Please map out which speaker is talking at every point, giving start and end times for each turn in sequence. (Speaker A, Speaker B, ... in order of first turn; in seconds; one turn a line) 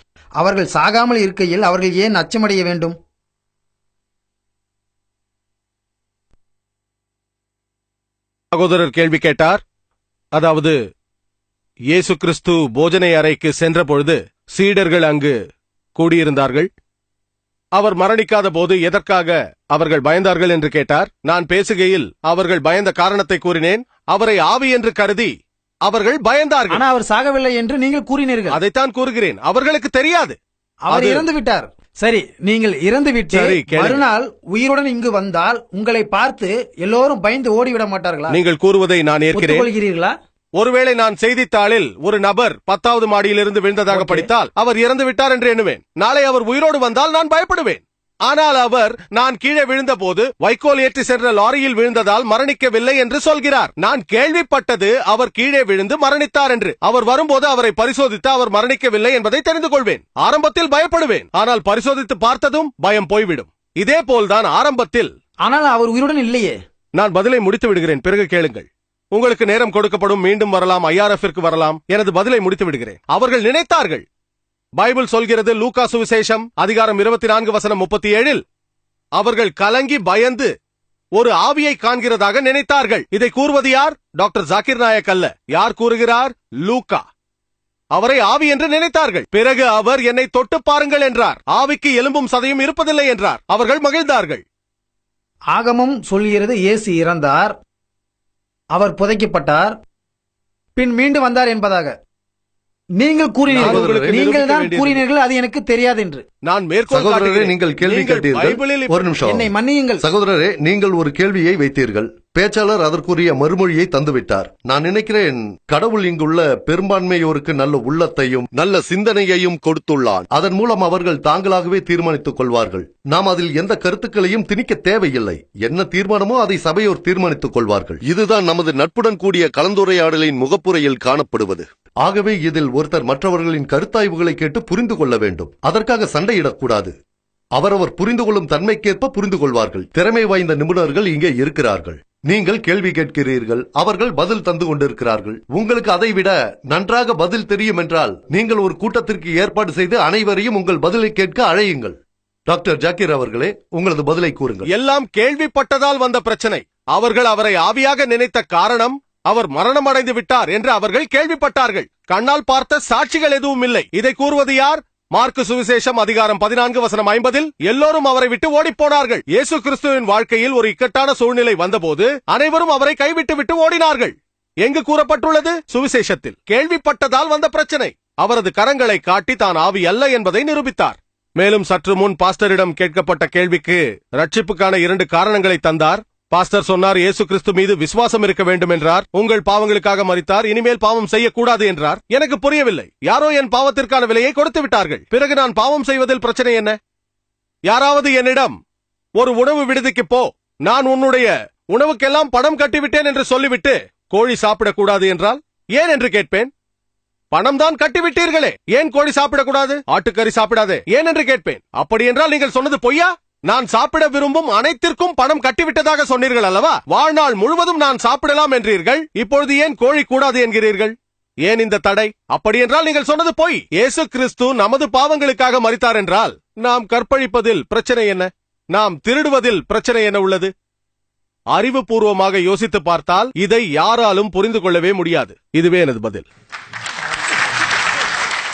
Speaker A: 0.4-3.0
Speaker B: 8.5-9.6
Speaker B: 10.3-10.8
Speaker B: 11.9-15.4
Speaker B: 15.9-16.7
Speaker B: 17.8-25.3
Speaker B: 25.9-26.8
Speaker A: 26.7-28.6
Speaker B: 28.5-30.4
Speaker A: 30.8-38.4
Speaker B: 30.9-31.3
Speaker B: 33.3-34.0
Speaker B: 38.3-39.7
Speaker A: 39.3-40.1
Speaker B: 40.6-65.1
Speaker A: 43.9-44.3
Speaker A: 65.5-66.6
Speaker B: 67.0-74.0
Speaker B: 74.8-78.4
Speaker B: 79.2-80.5
Speaker B: 81.2-87.0
Speaker B: 87.9-94.4
Speaker A: 95.5-97.6
Speaker A: 98.7-99.8
Speaker A: 100.8-102.0
Speaker A: 103.0-106.2
Speaker B: 103.5-105.0
Speaker C: 103.6-104.2
Speaker B: 106.4-109.0
Speaker C: 106.9-136.9
Speaker A: 109.2-110.0
Speaker C: 137.6-152.0
Speaker C: 152.5-154.7
Speaker B: 154.7-196.8
Speaker B: 197.7-198.6
Speaker B: 199.2-206.5
Speaker B: 207.3-230.5
Speaker B: 231.5-236.3